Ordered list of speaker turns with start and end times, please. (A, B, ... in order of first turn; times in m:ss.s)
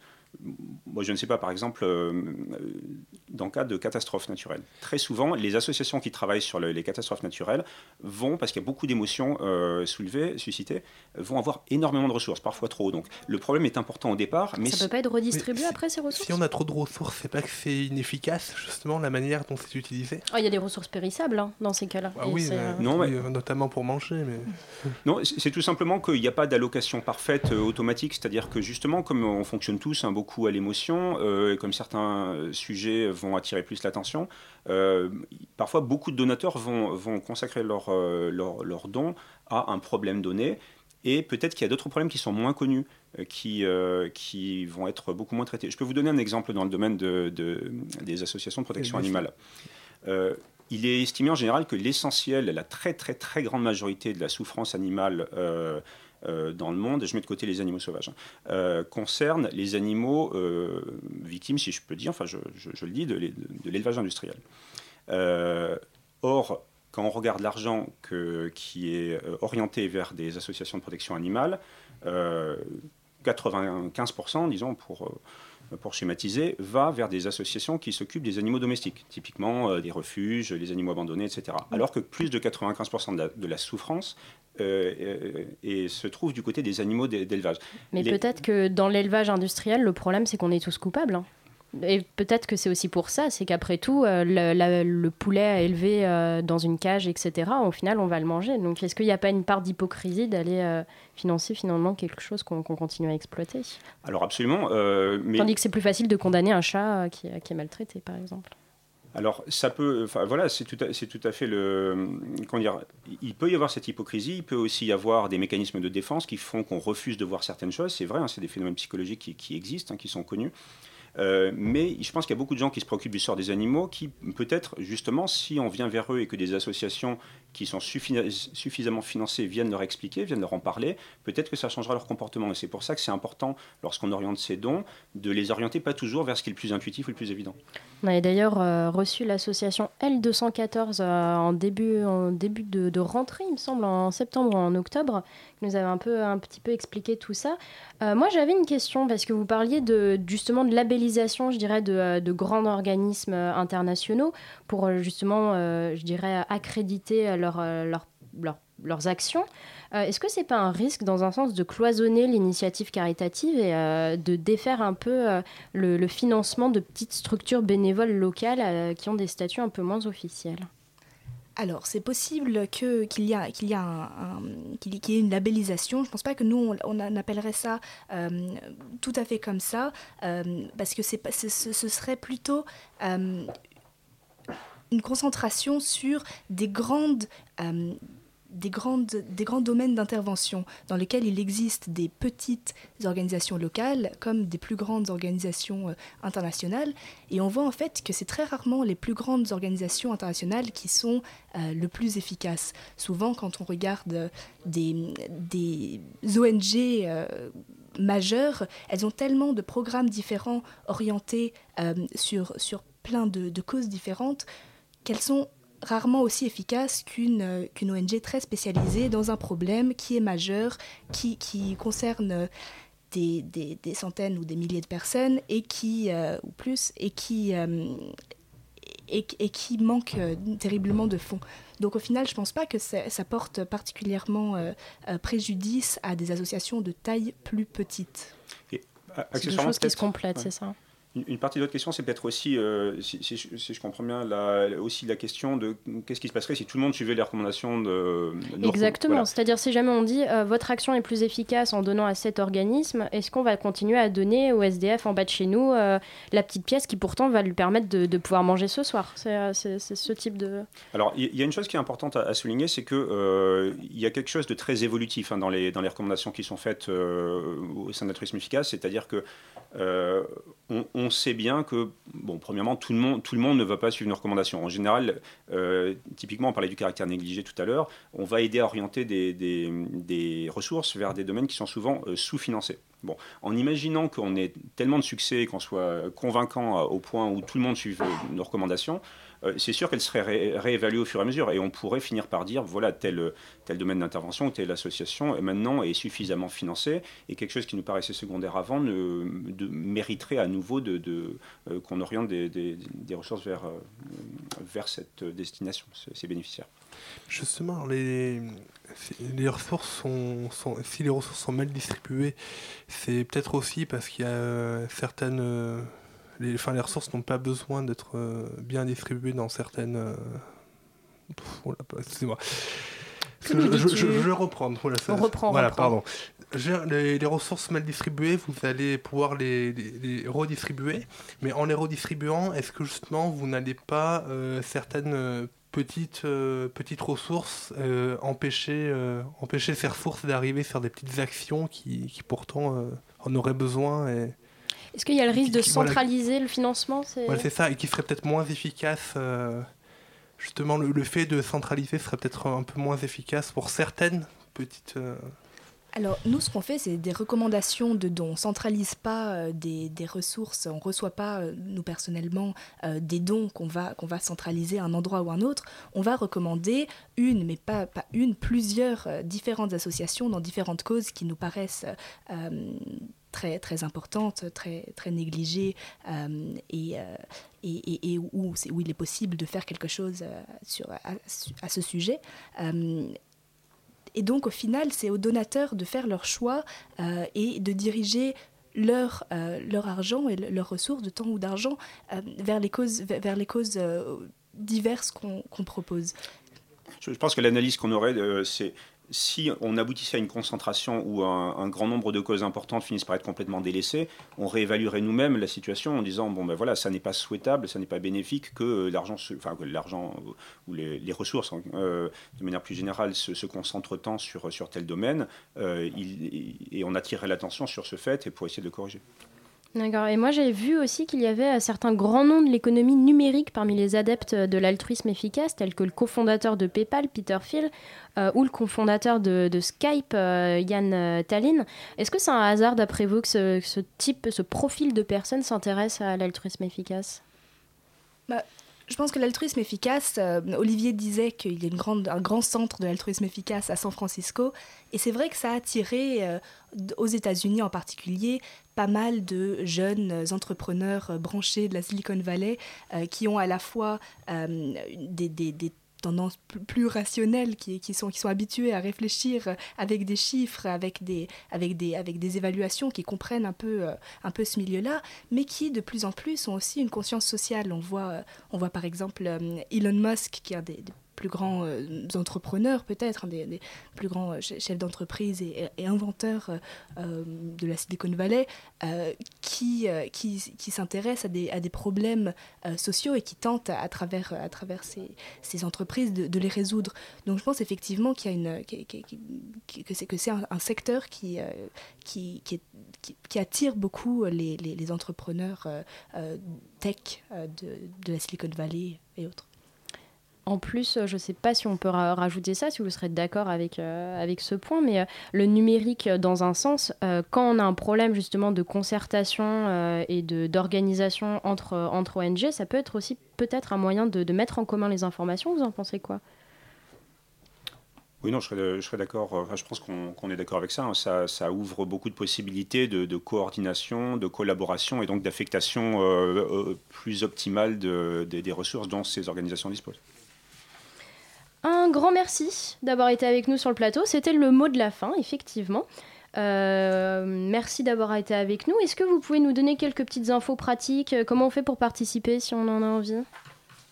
0:00.4-0:14.9 A
0:14.6-0:16.4 B
0:15.3-0:20.2 C
0:20.3-0:22.8 B
0:22.2-0:25.0 C
0:22.8-0:23.1 A
0:25.0-0:49.3 A
0:48.8-0:49.2 C
0:50.0-1:04.4 A
1:05.1-1:15.2 A
1:15.7-1:28.2 A
1:27.9-1:43.8 B
1:44.0-1:45.5 A
1:45.4-1:48.5 B
1:49.1-2:00.5 A
2:01.2-2:17.6 A
2:18.0-2:50.7 B
2:51.6-3:03.5 D
3:04.9-3:34.4 D
3:35.0-3:42.5 D
3:43.1-3:48.1 D
3:49.1-3:58.3 D
3:58.7-4:00.5 A
3:59.4-4:00.7 B
4:01.1-4:09.3 A
4:08.6-4:20.7 B
4:20.9-5:06.7 A
5:07.3-5:20.6 C
5:21.3-5:44.4 C
5:23.4-5:24.3 B
5:25.1-5:25.9 B
5:44.9-5:47.5 B
5:45.3-5:46.0 C
5:47.3-5:49.7 C
5:50.4-5:55.3 C
5:56.0-6:23.1 D
6:24.2-6:36.1 D
6:37.0-6:59.0 A
6:59.7-7:17.2 B
7:18.3-8:19.4 D
8:20.4-8:36.2 B
8:38.2-8:50.0 A
8:51.6-9:03.2 B